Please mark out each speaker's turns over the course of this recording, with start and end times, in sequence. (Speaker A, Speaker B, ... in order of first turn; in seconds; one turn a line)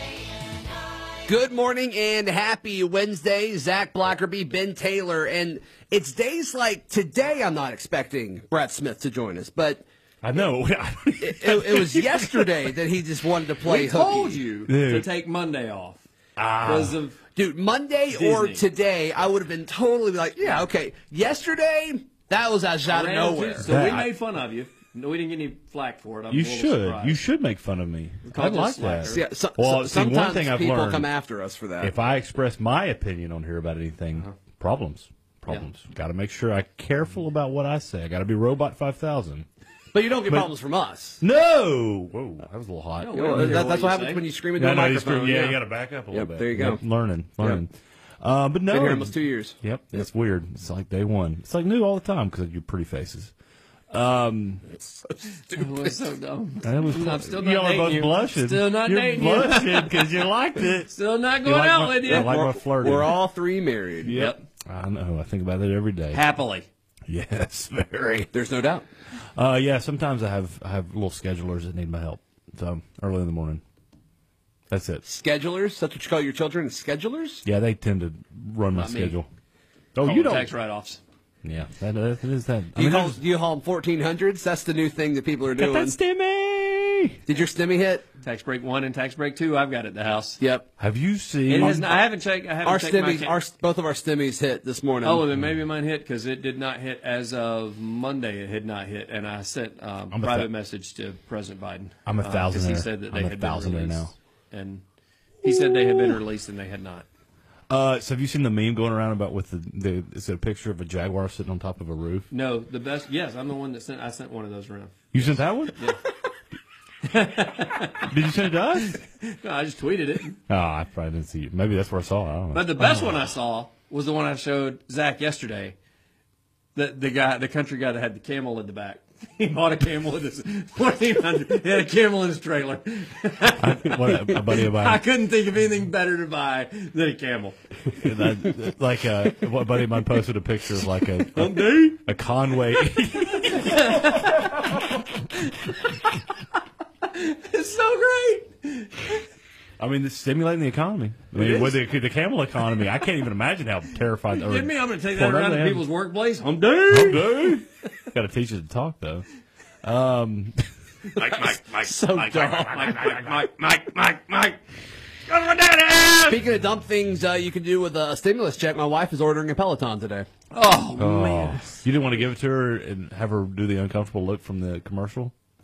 Speaker A: 1.3-9.8
Speaker B: 10.2-12.6
Speaker A: 11.2-14.4
Speaker C: 13.6-16.0
Speaker B: 14.7-15.1
Speaker B: 16.4-17.0
Speaker C: 16.6-17.2
Speaker A: 17.4-23.7
Speaker C: 18.1-18.7
Speaker C: 22.9-27.2
Speaker B: 23.6-24.1
Speaker B: 26.3-31.1
Speaker C: 28.2-29.2
Speaker A: 29.3-31.9
Speaker B: 31.8-39.5
Speaker A: 39.9-41.2
Speaker B: 41.2-43.7
Speaker C: 43.0-44.2
Speaker A: 43.1-45.5
Speaker B: 44.6-53.3
Speaker A: 46.1-46.8
Speaker A: 48.8-49.5
Speaker B: 53.9-54.7
Speaker C: 55.3-60.2
Speaker B: 56.6-63.1
Speaker C: 60.9-62.4
Speaker A: 62.1-64.2
Speaker B: 64.0-66.2
Speaker C: 64.1-64.4
Speaker C: 66.1-66.7
Speaker B: 67.1-68.3
Speaker A: 68.3-68.8
Speaker B: 69.3-73.6
Speaker B: 74.7-75.0
Speaker A: 75.0-77.4
Speaker B: 77.4-79.3
Speaker C: 78.7-79.2
Speaker B: 79.9-80.5
Speaker C: 80.0-81.0
Speaker B: 81.4-83.2
Speaker A: 82.8-86.0
Speaker B: 85.5-87.2
Speaker A: 87.3-88.0
Speaker C: 88.2-90.4
Speaker A: 90.4-90.7
Speaker B: 90.8-92.0
Speaker C: 91.5-93.3
Speaker A: 92.7-95.3
Speaker C: 95.0-104.8
Speaker B: 100.1-100.5
Speaker B: 102.0-104.1
Speaker C: 105.4-107.0
Speaker B: 107.7-112.3
Speaker C: 112.3-116.0
Speaker B: 115.1-115.9
Speaker C: 117.0-118.1
Speaker B: 118.0-119.0
Speaker C: 118.8-120.4
Speaker B: 120.5-123.3
Speaker C: 122.5-125.8
Speaker C: 126.7-138.0
Speaker B: 133.6-135.0
Speaker B: 137.9-144.1
Speaker C: 141.2-142.1
Speaker C: 142.7-146.1
Speaker C: 147.0-149.2
Speaker B: 149.8-155.8
Speaker C: 151.3-151.7
Speaker C: 154.3-157.6
Speaker B: 156.9-159.3
Speaker B: 159.8-160.6
Speaker C: 161.1-164.6
Speaker A: 161.9-162.9
Speaker C: 165.3-166.4
Speaker A: 166.3-170.2
Speaker C: 170.5-171.8
Speaker B: 170.9-175.3